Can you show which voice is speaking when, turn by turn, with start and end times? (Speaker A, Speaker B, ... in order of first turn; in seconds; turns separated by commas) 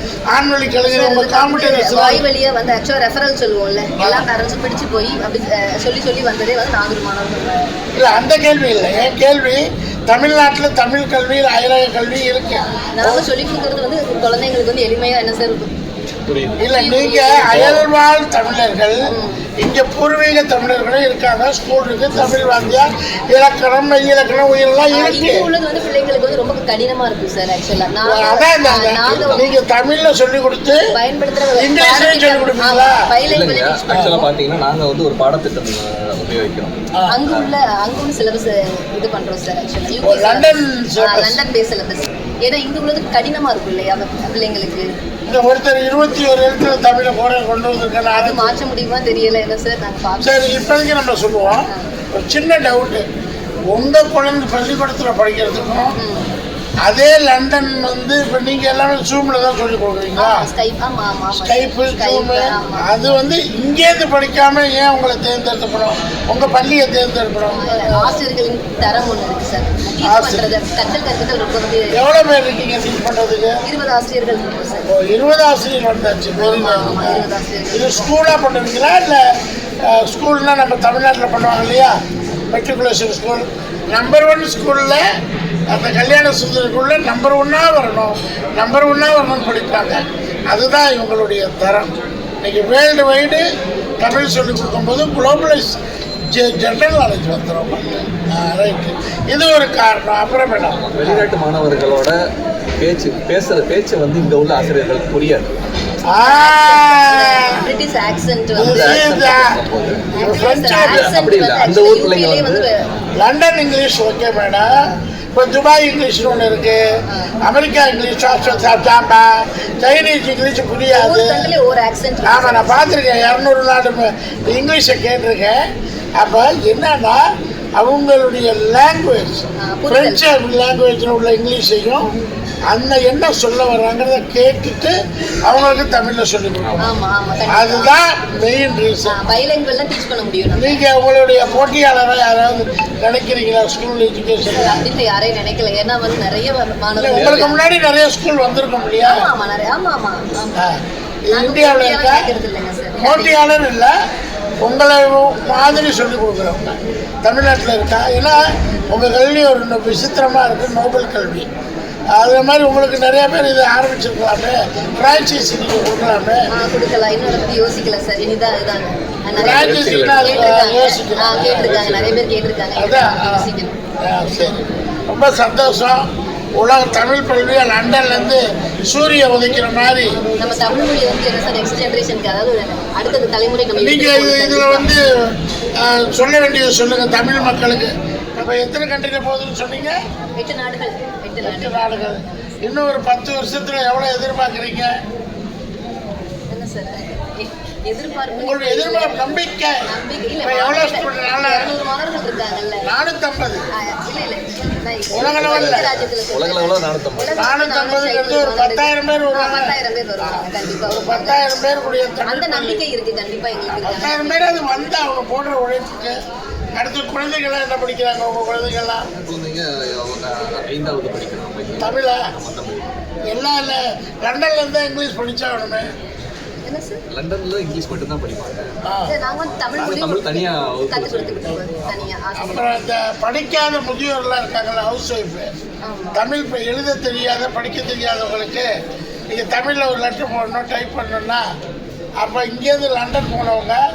Speaker A: 0.3-2.2, Speaker B: 0.8-8.1, Speaker A: 4.0-4.2, Speaker A: 8.0-13.2, Speaker B: 13.0-15.7, Speaker C: 16.3-16.6, Speaker B: 16.6-17.6, Speaker A: 16.6-25.4, Speaker C: 17.5-17.9, Speaker B: 19.1-19.4, Speaker B: 24.9-29.5, Speaker A: 28.1-30.8, Speaker C: 29.1-29.4, Speaker B: 30.9-34.3, Speaker A: 31.6-33.0, Speaker C: 33.2-36.8, Speaker A: 33.9-34.2, Speaker A: 36.9-37.2, Speaker B: 37.1-44.9, Speaker A: 40.0-41.4, Speaker A: 45.3-48.5, Speaker B: 48.1-50.5, Speaker A: 50.2-53.0, Speaker A: 53.7-55.9, Speaker B: 56.0-56.3, Speaker A: 56.9-60.5, Speaker B: 60.2-63.0, Speaker A: 61.4-68.2, Speaker B: 67.5-71.9, Speaker A: 70.0-70.5, Speaker A: 71.9-73.6, Speaker B: 73.7-74.9, Speaker A: 74.9-79.2, Speaker B: 76.4-78.0, Speaker A: 79.8-82.0, Speaker A: 82.5-85.0, Speaker A: 85.7-93.5, Speaker A: 94.0-95.8, Speaker A: 96.3-101.2, Speaker B: 97.8-98.1, Speaker C: 100.7-102.1, Speaker C: 102.8-105.5, Speaker B: 106.1-109.0, Speaker A: 106.1-107.7, Speaker C: 108.5-110.0, Speaker A: 108.6-109.6, Speaker B: 110.1-112.8, Speaker A: 110.2-111.2, Speaker C: 110.9-112.7, Speaker A: 113.2-114.8, Speaker B: 114.7-115.0, Speaker A: 115.3-116.8, Speaker A: 117.4-121.5, Speaker B: 118.3-118.8, Speaker B: 120.9-123.0, Speaker A: 122.2-125.6, Speaker A: 126.2-127.2, Speaker A: 127.8-132.1, Speaker B: 129.7-130.2, Speaker A: 132.7-134.9, Speaker A: 135.5-136.9, Speaker B: 136.8-137.9, Speaker A: 137.5-139.2, Speaker B: 139.1-140.8, Speaker A: 140.6-144.8, Speaker B: 144.5-147.7, Speaker A: 147.0-149.3, Speaker C: 147.2-147.4, Speaker B: 149.1-150.6, Speaker A: 150.6-152.3, Speaker B: 151.3-153.4, Speaker A: 153.0-153.9, Speaker A: 154.6-161.5, Speaker A: 162.2-166.5, Speaker B: 166.5-173.8, Speaker C: 169.3-170.5, Speaker A: 169.4-171.9, Speaker C: 171.3-172.3, Speaker A: 172.8-173.5, Speaker A: 174.0-180.2, Speaker B: 180.4-185.0, Speaker A: 183.8-190.0, Speaker B: 190.4-192.7, Speaker A: 191.4-194.9, Speaker B: 196.5-202.9, Speaker A: 198.3-199.8, Speaker A: 200.4-201.8, Speaker A: 202.8-203.6, Speaker B: 203.8-214.5, Speaker A: 205.1-205.9, Speaker C: 205.2-207.5, Speaker A: 207.4-212.8, Speaker A: 213.8-216.2, Speaker A: 216.8-219.1, Speaker C: 219.2-222.9, Speaker A: 221.8-222.3, Speaker A: 223.3-225.9, Speaker B: 226.7-227.1, Speaker C: 227.1-228.8, Speaker A: 228.8-229.1, Speaker B: 229.1-232.7, Speaker C: 229.8-232.0, Speaker A: 232.4-235.5, Speaker B: 235.9-236.2, Speaker A: 236.1-238.7, Speaker A: 239.3-241.5, Speaker A: 242.2-243.8